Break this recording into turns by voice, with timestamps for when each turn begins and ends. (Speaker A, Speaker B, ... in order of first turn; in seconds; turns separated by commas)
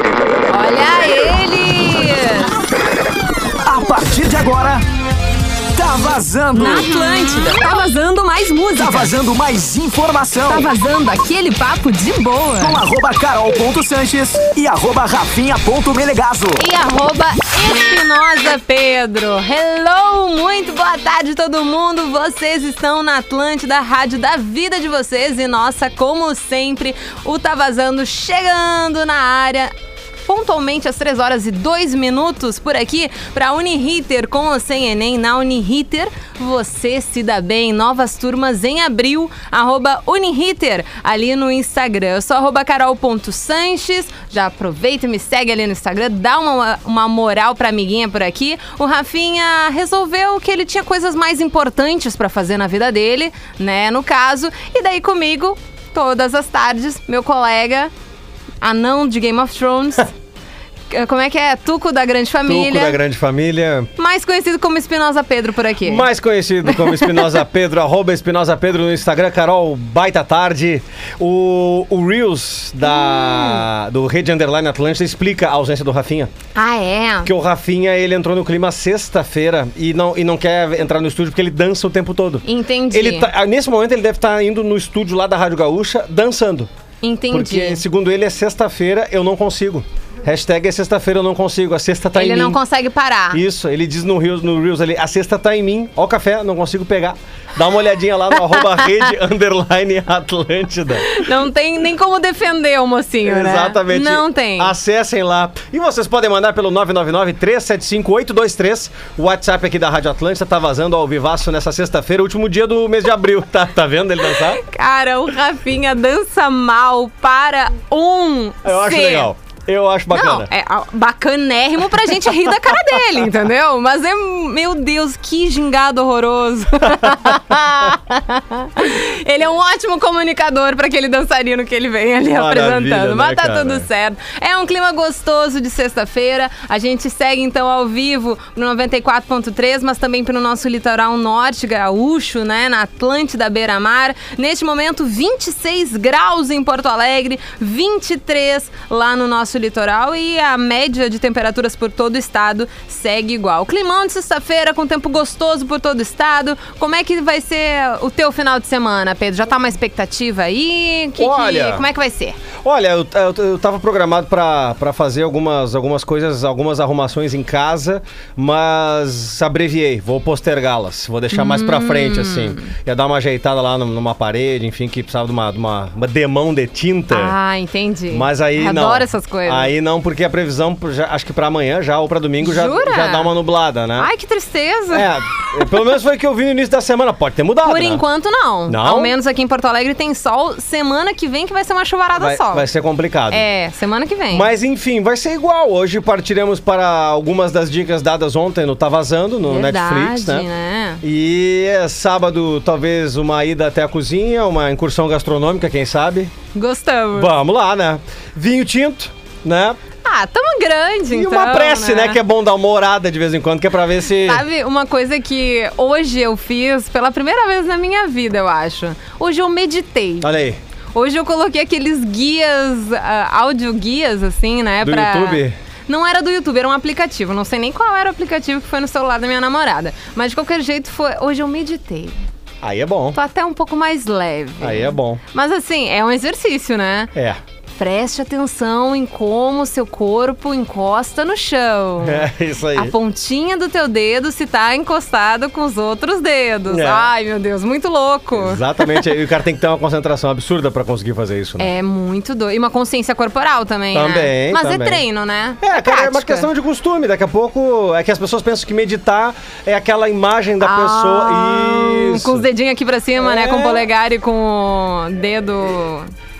Speaker A: 0.5-2.5, Speaker B: 3.6-4.8, Speaker B: 5.7-7.6, Speaker A: 6.5-9.1, Speaker B: 8.7-10.7, Speaker A: 10.5-12.8, Speaker B: 12.6-16.6, Speaker A: 16.6-57.9, Speaker A: 58.6-60.1, Speaker A: 60.9-63.0, Speaker C: 62.5-63.9, Speaker A: 64.0-66.0, Speaker C: 65.8-76.3, Speaker A: 66.7-67.3, Speaker A: 72.8-73.7, Speaker A: 76.5-77.3, Speaker C: 77.2-86.7, Speaker A: 82.4-83.3, Speaker A: 87.0-87.8, Speaker C: 87.3-92.6, Speaker A: 92.1-93.4, Speaker C: 93.3-101.2, Speaker A: 101.1-104.7, Speaker C: 103.2-114.6, Speaker A: 114.3-119.3, Speaker C: 118.6-120.5, Speaker A: 120.1-162.4, Speaker C: 126.8-127.3, Speaker C: 132.3-133.9, Speaker C: 161.2-161.8, Speaker C: 162.6-177.3, Speaker A: 171.3-172.7, Speaker A: 177.1-179.7, Speaker C: 178.1-184.1, Speaker A: 182.4-183.3, Speaker A: 184.0-185.1, Speaker C: 184.9-188.0, Speaker A: 187.6-192.6, Speaker C: 188.7-189.1, Speaker C: 192.1-193.4, Speaker A: 193.3-194.5, Speaker C: 194.3-200.5, Speaker A: 199.4-201.0, Speaker C: 201.0-206.3, Speaker A: 206.5-207.3, Speaker C: 207.1-209.8, Speaker A: 210.0-212.2, Speaker C: 211.1-214.4, Speaker A: 214.2-220.3, Speaker C: 220.2-220.6, Speaker A: 220.9-232.2, Speaker C: 224.8-225.6, Speaker C: 232.6-233.2, Speaker A: 233.1-237.1, Speaker C: 234.6-235.2, Speaker A: 237.8-249.0, Speaker C: 242.0-242.9, Speaker C: 246.7-247.1, Speaker C: 248.3-251.7, Speaker A: 251.6-256.5, Speaker C: 253.9-255.0, Speaker C: 255.6-262.5, Speaker A: 260.6-266.1, Speaker C: 263.2-263.9